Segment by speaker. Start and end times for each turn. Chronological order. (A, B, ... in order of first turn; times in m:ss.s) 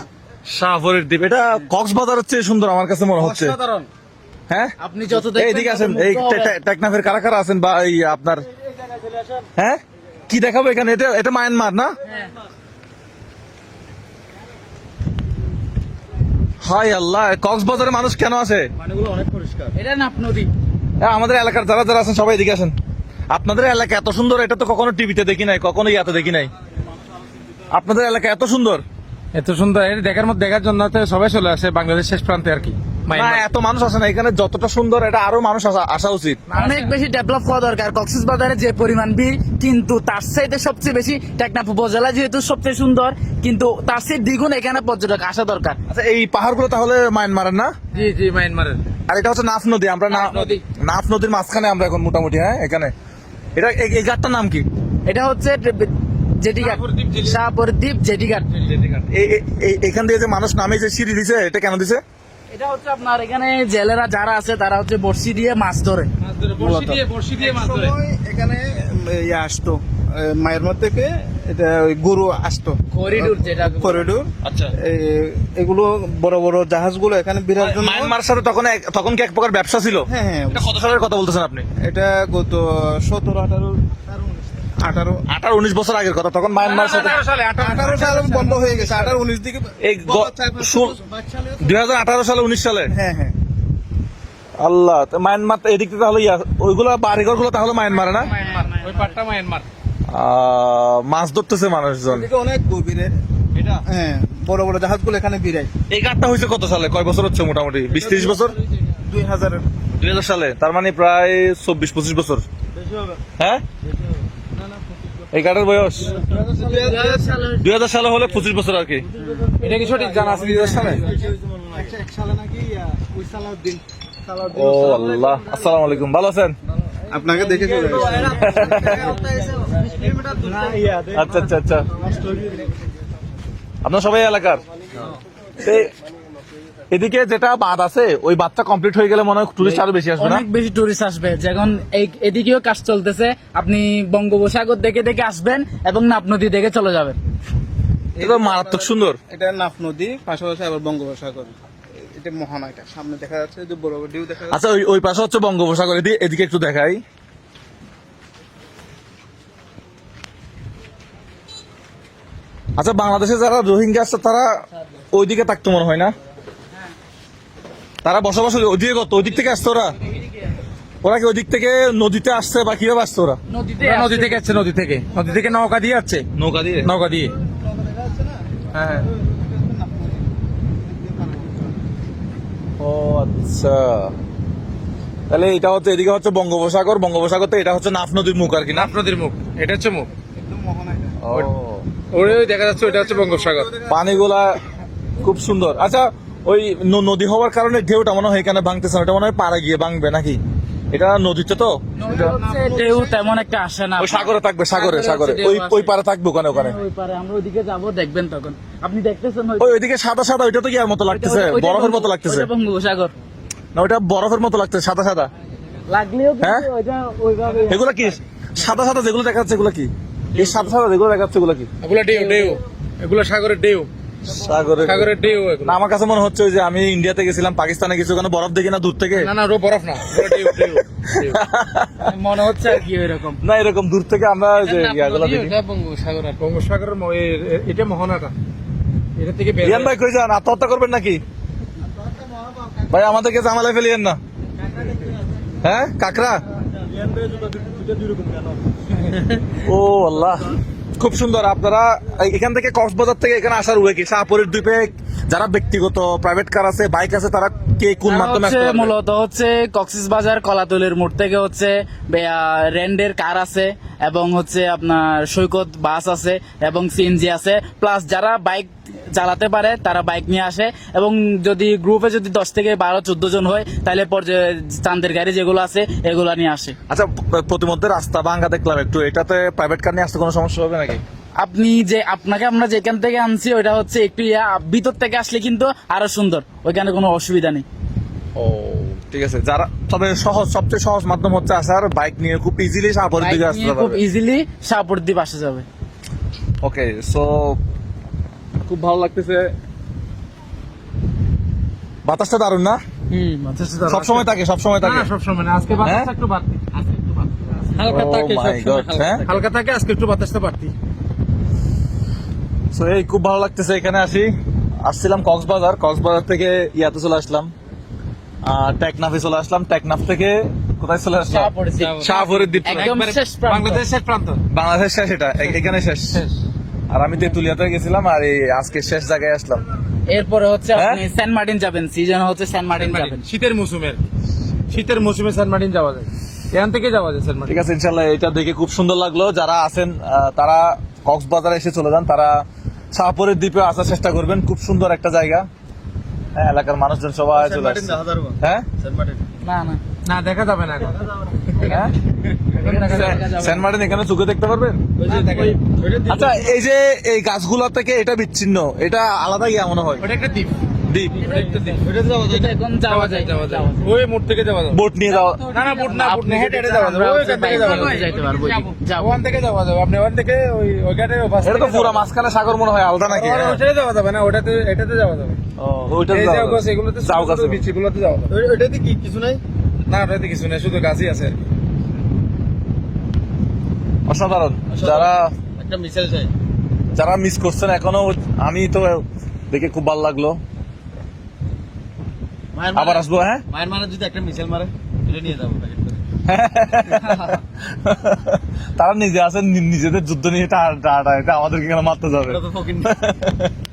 0:00.4-0:03.6 A
0:03.2-0:03.9 B
0:04.5-0:08.5 A
0:04.8-0:06.5 C
0:09.6-0:11.9 A
0:12.0-0:12.3 C
0:16.6-0:18.7 A
0:18.8-0:19.7 B
0:19.8-0:20.5 C
0:21.0-0:22.7 A
0:23.3-0:26.5 A
0:27.7-0:28.8 A
0:29.3-0:33.5 D
0:33.1-0:36.4 A
0:36.5-0:36.9 D
0:36.5-0:45.8 C
0:45.9-0:47.7 A
0:47.9-0:48.8 D
0:49.1-0:52.9 A
0:50.1-0:50.6 D
0:53.5-0:54.6 A
0:55.0-0:58.5 C
0:56.5-0:57.4 D
0:58.6-0:59.0 D
0:59.1-1:02.0 A
1:02.5-1:06.1 C
1:06.2-1:07.9 D
1:06.5-1:18.1 E
1:12.9-1:14.1 C
1:14.4-1:14.7 A
1:17.6-1:21.6 A
1:20.1-1:20.7 E
1:21.8-1:25.2 E
1:25.3-1:27.2 A
1:26.6-1:29.2 D
1:26.9-1:28.5 C
1:27.6-1:31.6 E
1:29.8-1:31.0 A
1:31.6-1:32.9 A
1:32.9-1:33.4 E
1:34.6-1:38.3 A
1:37.9-1:39.1 C
1:38.4-1:39.6 D
1:40.1-1:42.3 A
1:42.1-1:43.1 E
1:43.8-1:45.7 E
1:45.9-1:48.6 A
1:48.0-1:48.4 E
1:49.0-1:49.6 E
1:50.0-1:52.4 A
1:52.8-1:53.2 B
1:53.4-1:53.6 A
1:55.3-1:56.2 A
1:56.0-1:57.4 E
1:56.2-1:57.2 B
1:56.6-1:57.7 C
1:57.6-1:59.1 A
1:59.2-1:59.5 C
1:59.3-1:59.7 B
1:59.6-2:01.0 D
2:00.0-2:05.4 E
2:00.2-2:01.9 B
2:04.5-2:06.6 A
2:07.1-2:11.2 E
2:07.4-2:11.0 B
2:08.1-2:09.2 A
2:11.1-2:11.9 A
2:12.0-2:12.7 E
2:13.8-2:14.6 A
2:15.6-2:15.9 A
2:16.9-2:20.4 A
2:19.6-2:27.2 C
2:28.2-2:31.5 E
2:28.2-2:29.2 A
2:32.1-2:34.6 E
2:34.5-2:37.0 A
2:42.8-2:46.1 A
2:48.0-2:50.0 A
2:51.0-2:53.4 A
2:53.5-2:54.4 C
2:53.8-2:56.3 D
2:55.1-2:55.6 E
2:56.3-2:56.9 A
2:56.8-2:57.3 D
2:57.4-3:01.8 E
2:58.8-2:59.0 A
3:02.8-3:04.1 A
3:05.3-3:08.9 A
3:08.7-3:10.1 D
3:10.4-3:11.2 E
3:11.2-3:11.9 A
3:12.1-3:13.7 D
3:12.3-3:14.1 E
3:13.9-3:14.6 A
3:15.2-3:20.4 A
3:20.9-3:21.8 A
3:21.9-3:25.9 C
3:22.0-3:23.4 E
3:24.0-3:26.8 A
3:26.5-3:29.8 C
3:29.6-3:32.5 A
3:31.1-3:33.1 C
3:33.7-3:35.3 A
3:35.9-3:37.8 C
3:36.4-3:36.6 A
3:37.7-3:41.7 A
3:41.8-3:43.9 D
3:42.1-3:42.6 C
3:44.2-3:45.1 A
3:44.8-3:45.8 D
3:45.6-3:49.3 A
3:49.1-3:51.4 D
3:50.2-3:52.1 A
3:52.0-3:53.4 C
3:53.4-3:55.6 A
3:54.6-3:58.3 D
3:59.2-3:59.9 D
3:59.6-4:01.2 A
4:02.9-4:04.2 A
4:05.6-4:06.4 A
4:06.9-4:08.4 E
4:09.6-4:18.9 A
4:18.0-4:36.8 C
4:36.9-4:41.0 A
4:41.4-4:47.6 C
4:48.4-4:54.0 A
4:53.2-4:55.6 C
4:56.6-4:57.6 A
4:58.6-4:59.5 A
5:02.0-5:02.8 A
5:03.1-5:03.5 C
5:03.5-5:04.3 D
5:03.8-5:05.1 A
5:04.8-5:06.7 D
5:05.8-5:06.1 A
5:07.7-5:10.7 D
5:07.8-5:09.2 A
5:12.7-5:17.5 A
5:18.4-5:23.0 A
5:21.3-5:22.1 C
5:21.8-5:24.4 D
5:22.6-5:23.8 C
5:24.5-5:26.2 A
5:25.4-5:26.3 D
5:26.9-5:29.6 A
5:30.1-5:33.2 C
5:30.7-5:31.0 A
5:32.7-5:34.0 D
5:34.7-5:37.6 D
5:37.5-5:45.5 A
5:46.3-5:48.6 A
5:47.3-5:49.2 B
5:49.4-5:49.8 C
5:50.0-5:51.8 D
5:51.6-5:51.9 A
5:52.3-5:53.3 D
5:52.6-5:53.7 C
5:52.7-5:54.8 A
5:55.0-5:56.4 B
5:55.0-5:55.6 D
5:56.1-6:00.1 A
6:00.0-6:00.6 D
6:00.8-6:01.2 A
6:01.2-6:03.9 C
6:01.2-6:01.8 D
6:01.8-6:02.5 B
6:02.9-6:04.8 D
6:04.7-6:05.4 A
6:05.3-6:09.2 C
6:05.4-6:12.1 D
6:07.5-6:07.8 A
6:11.4-6:13.6 A
6:13.0-6:15.4 D
6:15.6-6:17.6 A
6:16.1-6:18.3 D
6:18.3-6:19.4 B
6:19.8-6:21.4 D
6:24.1-6:25.3 A
6:24.7-6:26.3 B
6:26.9-6:30.4 A
6:32.5-6:36.0 B
6:32.7-6:33.4 A
6:36.2-6:43.5 A
6:42.2-6:42.9 B